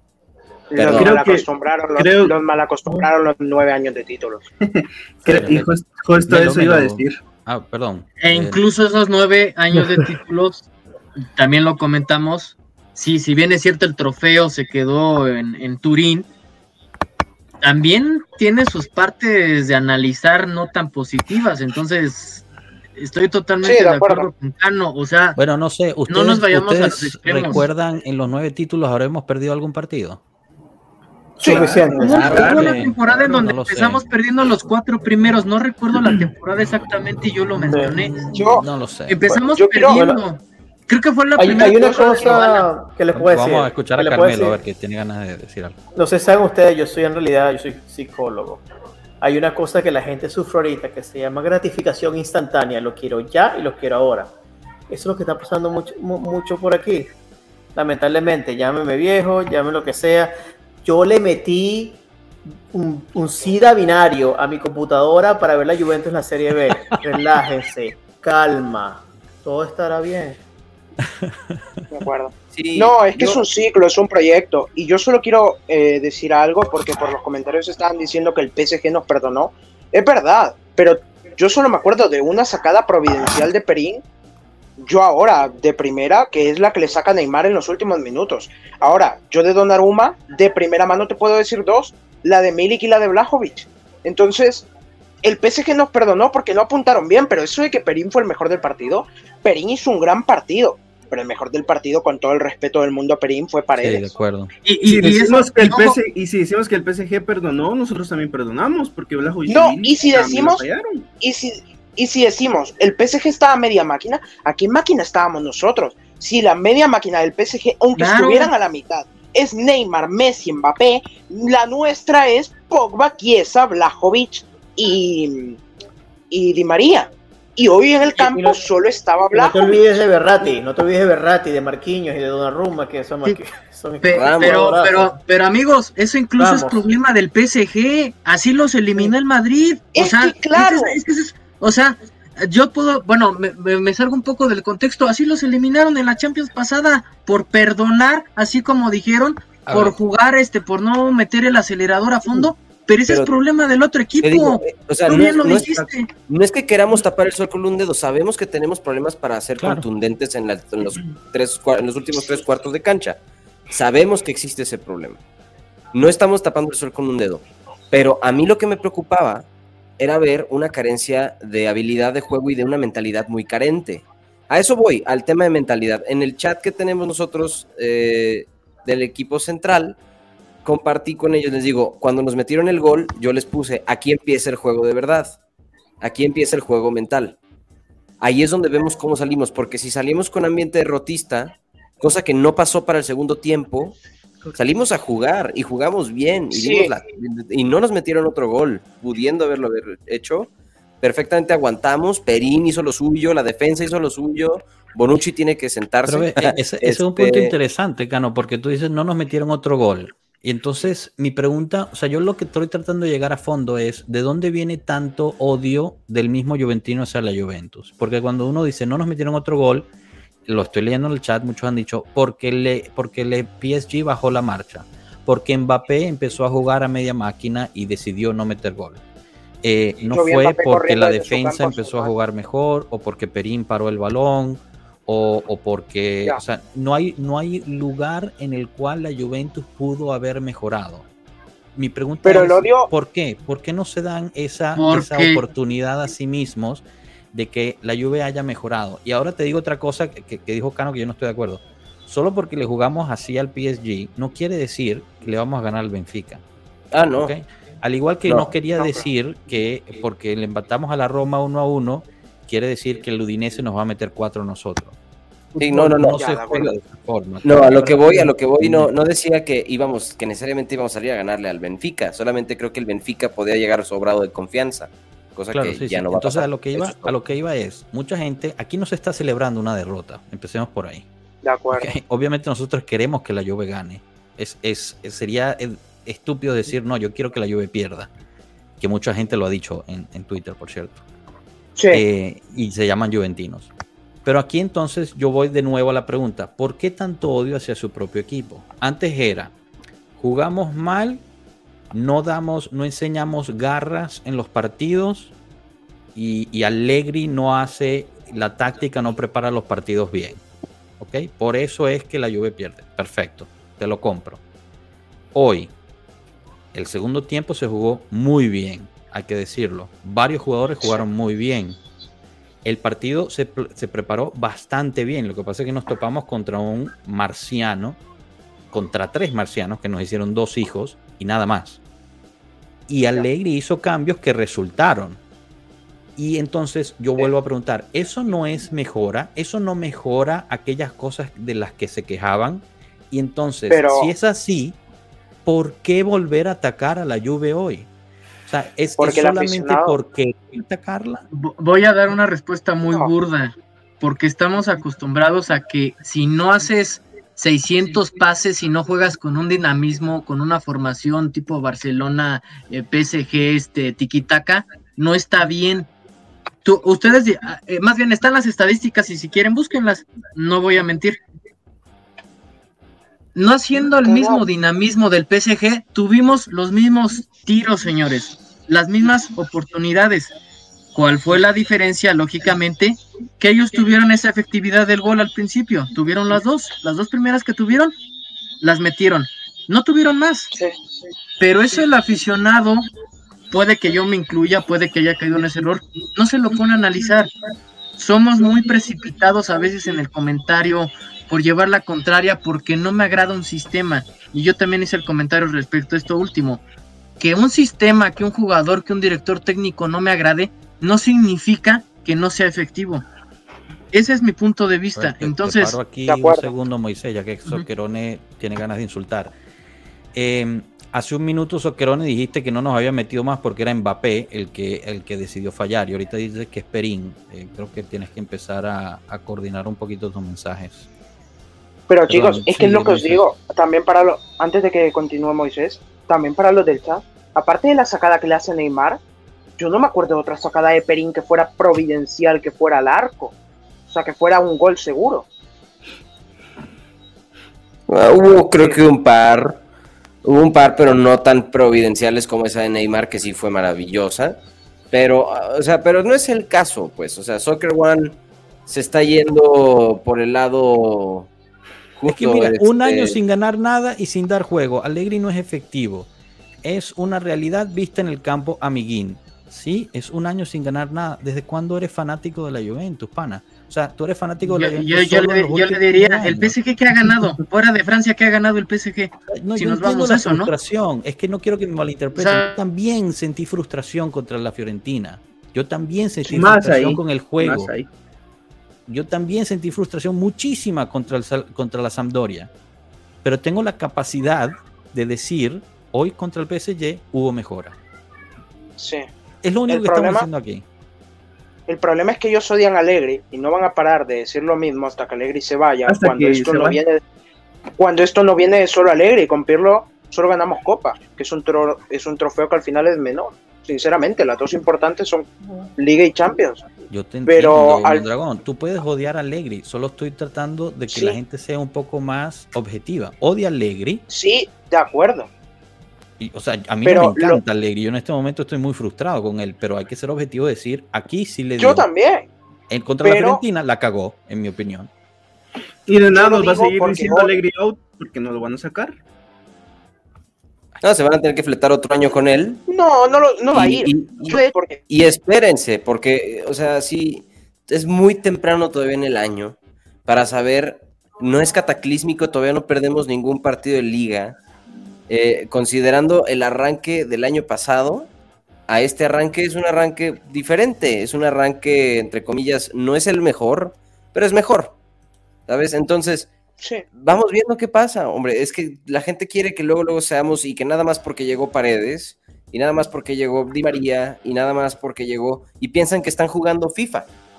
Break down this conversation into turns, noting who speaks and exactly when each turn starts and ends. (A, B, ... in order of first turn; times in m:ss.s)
0:00.7-0:04.5 A
0:00.8-0:01.2 B
0:00.8-0:03.1 C
0:04.6-0:07.2 C
0:05.2-0:08.6 D
0:08.2-0:10.7 E
0:11.2-0:16.3 E
0:17.6-0:22.4 E
0:23.0-0:25.4 E
0:23.6-0:24.3 A
0:25.4-0:30.2 D
0:26.1-0:27.6 E
0:31.4-0:32.9 C
0:31.4-0:31.7 A
0:31.4-0:32.4 F
0:32.0-0:38.3 E
0:32.1-0:34.1 D
0:37.6-0:39.2 D
0:37.7-0:38.0 F
0:38.3-0:38.6 A
0:39.1-0:42.6 E
0:39.3-0:40.2 F
0:39.6-0:40.0 A
0:41.4-0:44.6 F
0:41.5-0:42.6 A
0:43.1-0:45.8 D
0:45.9-0:48.6 F
0:49.2-0:54.3 F
0:54.9-0:57.1 F
0:57.8-1:00.3 F
1:00.8-1:02.0 F
1:02.7-1:10.4 F
1:11.9-1:24.0 A
1:12.5-1:13.4 B
1:24.8-1:34.7 A
1:35.2-1:44.1 A
1:43.8-1:44.5 D
1:44.6-1:46.0 E
1:44.9-1:51.1 C
1:49.5-1:50.6 A
1:51.2-2:05.6 A
1:58.0-1:58.5 E
2:06.3-2:09.9 A
2:08.2-2:08.6 F
2:09.3-2:15.1 F
2:14.0-2:36.1 E
2:14.1-2:14.8 B
2:16.4-2:16.9 F
2:19.9-2:21.0 A
2:29.7-2:30.0 D
2:33.1-2:33.3 B
2:34.2-2:43.2 B
2:35.1-2:35.9 C
2:39.6-2:39.8 D
2:43.7-2:45.2 B
2:45.9-2:49.5 B
2:50.0-3:00.0 B
3:00.6-3:05.4 B
3:06.0-3:07.4 B
3:08.2-3:14.0 B
3:14.5-3:20.5 B
3:16.5-3:16.9 A
3:21.0-3:27.5 B
3:26.1-3:39.9 D
3:40.5-3:49.0 D
3:49.6-4:01.1 D
3:50.0-3:52.1 A
4:01.8-4:16.4 D
4:02.2-4:02.9 A
4:04.8-4:05.4 E
4:16.9-4:17.3 B
4:17.2-4:25.0 D
4:18.3-4:18.5 B
4:18.8-4:19.0 A
4:25.5-4:28.9 D
4:25.6-4:26.8 B
4:26.1-4:26.7 A
4:27.4-4:37.1 B
4:35.5-4:41.1 D
4:41.4-4:41.9 A
4:41.7-4:48.1 D
4:48.8-4:51.0 D
4:51.8-4:52.0 A
4:51.9-4:53.7 D
4:54.2-4:59.5 D
5:00.2-5:01.2 D
5:01.9-5:05.3 D
5:06.2-5:10.4 D
5:11.0-5:14.4 D
5:15.3-5:15.7 D
5:16.7-5:21.8 D
5:22.6-5:28.0 D
5:28.7-5:31.8 D
5:32.9-5:35.2 D
5:36.2-5:44.8 D
5:43.7-5:44.1 A
5:45.4-5:47.9 D
5:48.5-5:51.2 D
5:49.0-5:50.0 A
5:51.3-6:05.9 E
6:06.6-6:11.2 E
6:13.4-6:20.3 E
6:14.0-6:14.4 A
6:20.9-6:27.9 E
6:28.6-6:30.5 E
6:31.4-6:32.9 E
6:33.5-6:37.3 E
6:38.0-6:46.6 E
6:47.2-6:53.0 E
6:53.9-6:55.8 E
6:55.0-6:59.3 D
6:56.1-6:56.5 A
7:00.1-7:10.9 D
7:11.9-7:19.0 A
7:12.1-7:13.2 D
7:19.6-7:23.3 A
7:23.9-7:25.3 A
7:27.9-7:29.6 B
7:30.2-7:34.4 B
7:34.9-7:41.3 B
7:42.0-7:43.2 B
7:42.1-7:46.1 D
7:46.6-7:56.6 D
7:54.5-8:00.5 E
7:59.3-8:07.7 D
8:02.2-8:02.6 E
8:06.3-8:07.9 C
8:08.9-8:12.5 D
8:13.2-8:17.8 D
8:18.8-8:19.1 A
8:19.4-8:20.6 D
8:19.7-8:20.3 A
8:21.7-8:27.0 A
8:25.9-8:26.8 C
8:27.8-8:36.6 A
8:36.9-8:44.0 D
8:37.3-8:38.0 A
8:40.9-8:41.2 A
8:44.1-8:45.3 A
8:46.2-8:51.9 D
8:46.8-8:47.4 A
8:51.6-8:52.3 A
8:52.7-8:54.9 D
8:53.0-8:53.4 A
8:55.9-8:59.0 C
8:56.1-8:57.4 A
9:00.8-9:02.6 B
9:02.7-9:04.8 A
9:03.5-9:14.4 B
9:15.1-9:18.1 B
9:18.7-9:24.8 B
9:25.5-9:26.3 B
9:27.0-9:37.1 B